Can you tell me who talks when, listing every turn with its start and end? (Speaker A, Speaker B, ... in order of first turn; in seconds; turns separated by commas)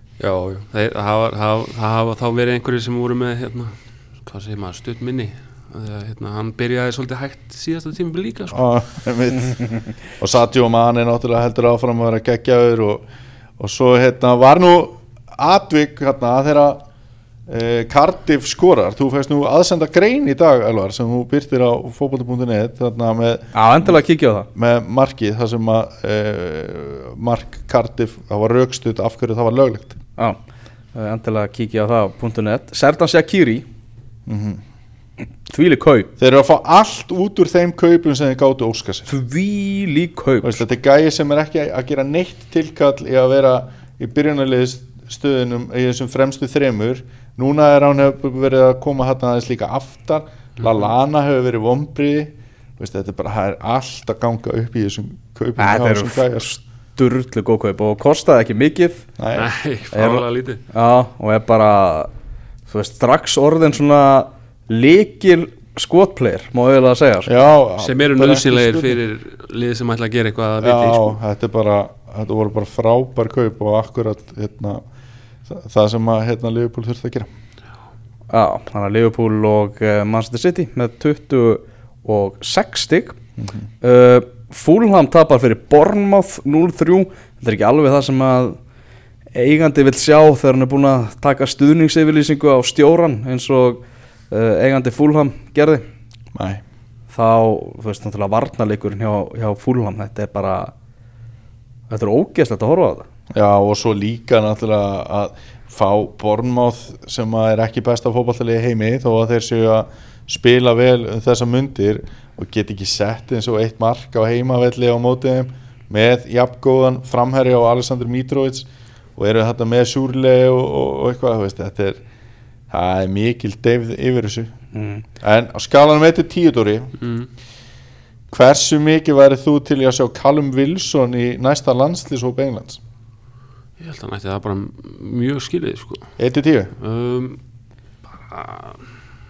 Speaker A: 0.2-8.6, Speaker B: 8.5-13.0, Speaker B: 13.6-16.8, Speaker B: 17.5-23.9, Speaker C: 23.5-24.5, Speaker B: 24.5-30.0, Speaker C: 30.9-33.6, Speaker B: 34.3-34.6, Speaker C: 35.5-36.1, Speaker B: 36.2-39.1, Speaker C: 39.1-40.6, Speaker B: 40.4-56.5, Speaker C: 55.6-59.0, Speaker B: 59.2-59.5, Speaker A: 59.3-60.6, Speaker C: 59.9-62.1, Speaker C: 62.7-67.3, Speaker B: 67.2-69.0, Speaker A: 67.8-71.2, Speaker B: 70.6-74.8, Speaker B: 75.5-77.3, Speaker C: 78.3-83.2, Speaker C: 83.8-88.6, Speaker C: 89.3-95.8, Speaker B: 96.3-96.6, Speaker C: 97.1-100.7, Speaker C: 101.9-103.0, Speaker B: 103.3-122.0, Speaker B: 122.7-124.5, Speaker C: 124.7-125.0, Speaker B: 125.2-126.9, Speaker A: 127.0-127.3, Speaker B: 128.3-132.8, Speaker A: 133.8-136.1, Speaker B: 136.2-136.7, Speaker A: 136.8-137.4, Speaker A: 138.3-138.8